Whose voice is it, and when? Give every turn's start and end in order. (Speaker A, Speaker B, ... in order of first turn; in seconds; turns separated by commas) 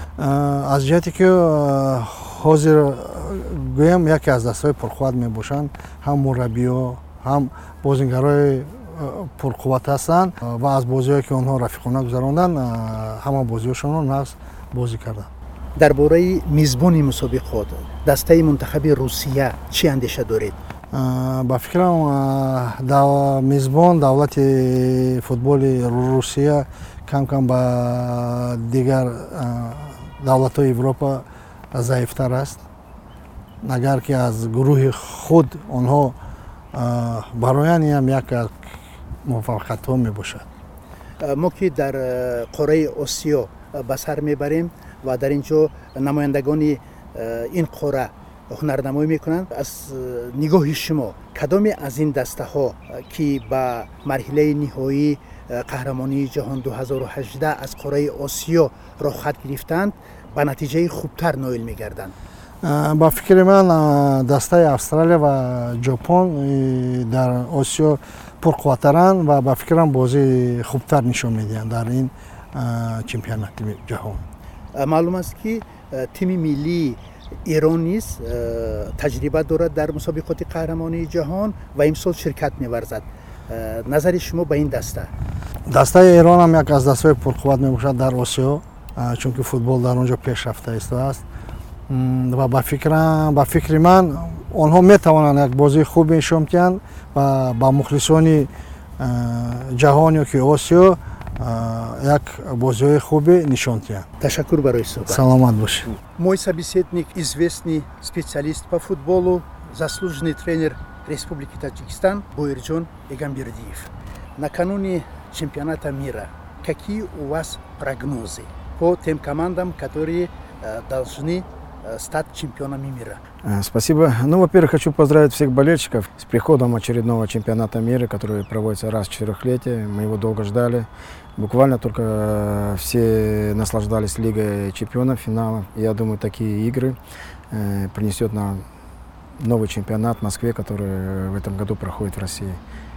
Speaker A: 0.2-15.3, Speaker B: 15.8-20.6, Speaker A: 20.9-32.6, Speaker A: 33.6-36.2, Speaker A: 36.7-38.6, Speaker A: 39.2-40.5, Speaker B: 41.2-62.1, Speaker A: 62.6-74.2, Speaker B: 74.8-85.1, Speaker A: 85.7-91.2, Speaker A: 91.9-104.1, Speaker B: 104.2-105.2, Speaker A: 105.1-106.0, Speaker B: 106.1-123.2, Speaker C: 123.4-137.0, Speaker C: 137.5-138.6, Speaker C: 139.4-142.6